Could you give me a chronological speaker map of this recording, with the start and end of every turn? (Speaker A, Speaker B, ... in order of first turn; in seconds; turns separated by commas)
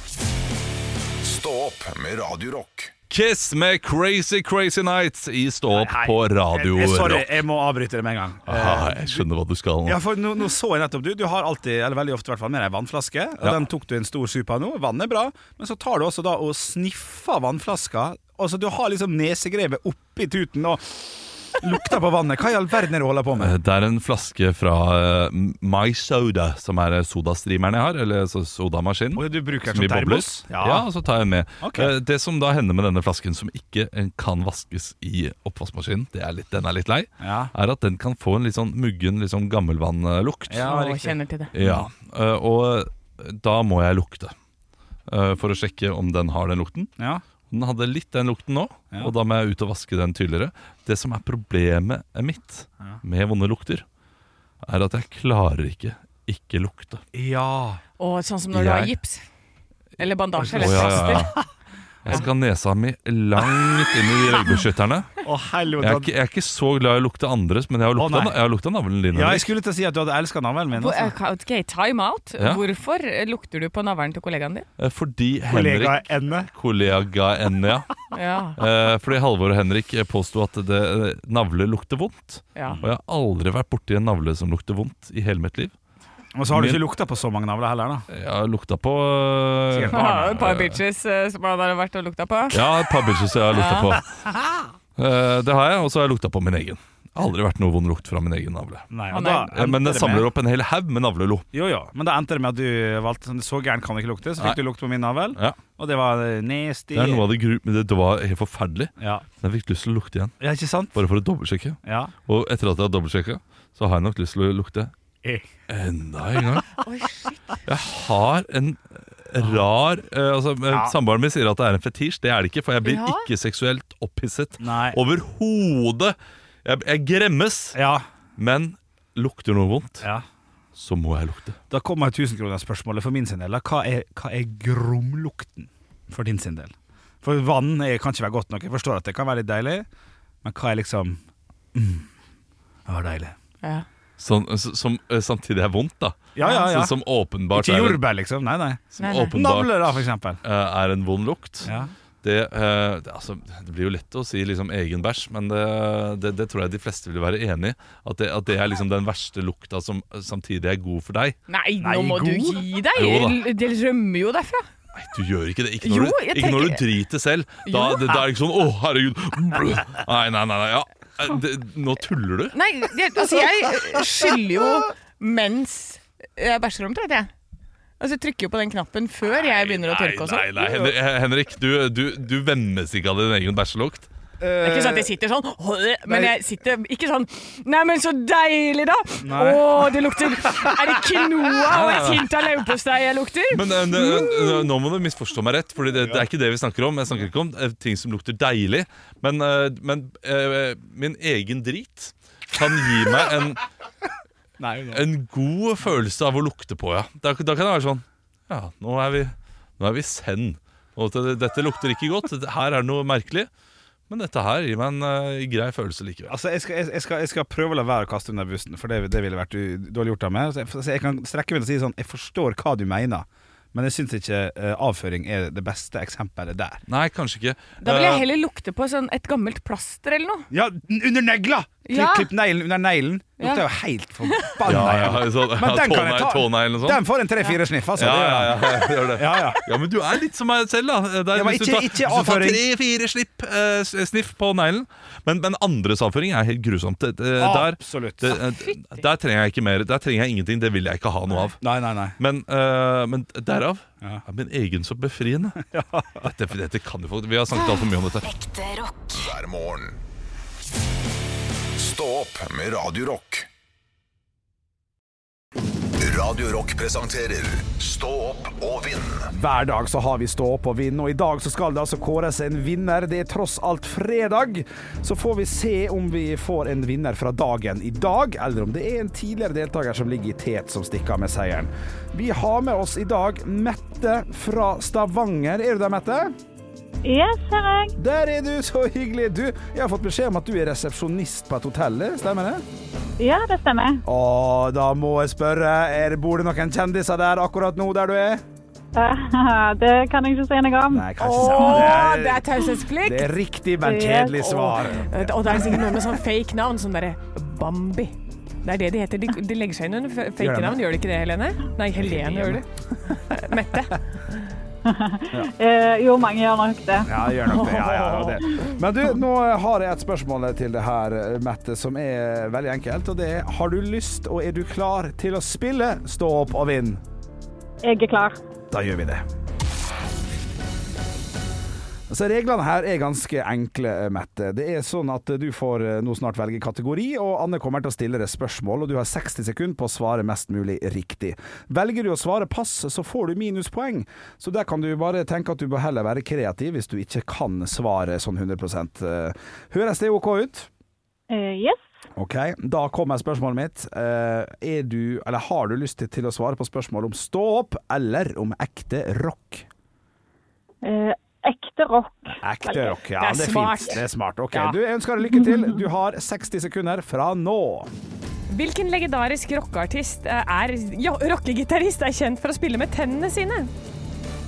Speaker A: 1.2-2.9, Speaker B: 3.1-7.4, Speaker C: 5.7-9.2, Speaker B: 8.5-10.0, Speaker C: 9.8-23.5, Speaker B: 23.4-40.7, Speaker C: 29.1-30.9, Speaker C: 31.6-31.9, Speaker C: 37.2-37.5, Speaker C: 40.5-41.9, Speaker D: 40.6-41.5, Speaker B: 41.5-44.3, Speaker B: 45.1-46.9, Speaker B: 47.5-53.8, Speaker B: 54.6-57.0, Speaker C: 57.1-57.8, Speaker D: 58.0-59.2, Speaker B: 58.5-58.9, Speaker D: 60.0-61.4, Speaker C: 60.4-61.4, Speaker B: 60.5-61.3, Speaker B: 62.0-65.1, Speaker C: 65.2-66.1, Speaker B: 65.8-69.5, Speaker C: 67.9-68.4, Speaker C: 69.1-71.1, Speaker D: 70.7-74.7, Speaker B: 72.4-72.6, Speaker B: 74.8-77.9, Speaker C: 75.5-76.5, Speaker D: 78.1-78.6, Speaker B: 78.6-85.7, Speaker C: 86.3-88.0, Speaker B: 86.5-86.8, Speaker B: 88.1-90.8, Speaker C: 89.7-90.4, Speaker D: 89.9-92.6, Speaker B: 92.5-94.0, Speaker D: 93.5-94.0, Speaker C: 94.1-94.7, Speaker B: 95.0-98.9, Speaker C: 98.9-100.3, Speaker D: 99.1-99.5, Speaker B: 99.5-101.5, Speaker C: 101.5-107.2, Speaker B: 106.9-110.3, Speaker C: 109.0-109.2, Speaker C: 110.4-111.0, Speaker B: 110.9-114.9, Speaker C: 111.8-112.1, Speaker B: 115.7-116.8, Speaker D: 116.8-117.6, Speaker B: 117.6-127.8, Speaker C: 120.7-120.9, Speaker D: 122.8-123.2, Speaker C: 124.6-125.0, Speaker C: 127.7-128.0, Speaker B: 128.4-130.0, Speaker B: 130.8-131.6, Speaker C: 131.7-139.9, Speaker C: 140.4-141.2, Speaker C: 141.7-142.1, Speaker C: 142.9-143.3, Speaker B: 144.2-148.0, Speaker C: 146.3-146.9, Speaker D: 146.4-146.7, Speaker C: 147.5-150.4, Speaker B: 148.9-151.7, Speaker D: 149.0-149.3, Speaker C: 151.6-151.9, Speaker B: 152.2-161.4, Speaker D: 161.5-164.7, Speaker C: 161.8-162.7, Speaker B: 162.9-163.4, Speaker B: 164.9-172.6, Speaker D: 165.8-166.8, Speaker D: 167.7-168.2, Speaker D: 172.5-177.3, Speaker D: 178.0-180.7, Speaker B: 179.3-184.1, Speaker C: 184.4-185.1, Speaker D: 184.6-194.6, Speaker C: 186.1-186.4, Speaker C: 189.2-189.9, Speaker C: 190.4-191.0, Speaker B: 191.6-192.3, Speaker B: 193.5-203.6, Speaker C: 195.9-196.3, Speaker C: 204.6-205.0, Speaker B: 204.9-213.5, Speaker B: 214.1-216.3, Speaker C: 216.3-226.8, Speaker B: 226.9-228.2, Speaker D: 227.8-230.5, Speaker C: 230.5-239.6, Speaker D: 231.8-232.3, Speaker D: 234.3-234.7, Speaker B: 234.6-237.0, Speaker B: 237.9-251.6, Speaker C: 241.3-242.6, Speaker C: 247.4-248.4, Speaker C: 251.6-252.2, Speaker B: 252.2-255.6, Speaker C: 255.7-256.3, Speaker B: 256.2-258.3, Speaker A: 258.3-260.0, Speaker A: 261.8-263.5, Speaker A: 266.0-269.3, Speaker C: 269.3-286.3, Speaker E: 287.0-287.9, Speaker C: 288.0-292.6, Speaker E: 293.2-294.0, Speaker C: 294.0-298.4, Speaker E: 298.9-302.0, Speaker C: 300.9-306.0, Speaker D: 301.2-303.3, Speaker E: 303.8-304.3, Speaker D: 304.3-314.0, Speaker C: 310.4-310.8, Speaker C: 311.9-312.6, Speaker E: 314.8-317.2, Speaker C: 317.0-327.0, Speaker D: 317.4-318.4, Speaker E: 327.8-328.4, Speaker C: 328.7-329.2, Speaker C: 332.1-350.7, Speaker E: 351.3-351.8, Speaker C: 352.1-359.7, Speaker E: 360.8-362.9, Speaker C: 362.4-367.9, Speaker D: 363.2-364.8, Speaker D: 368.5-373.7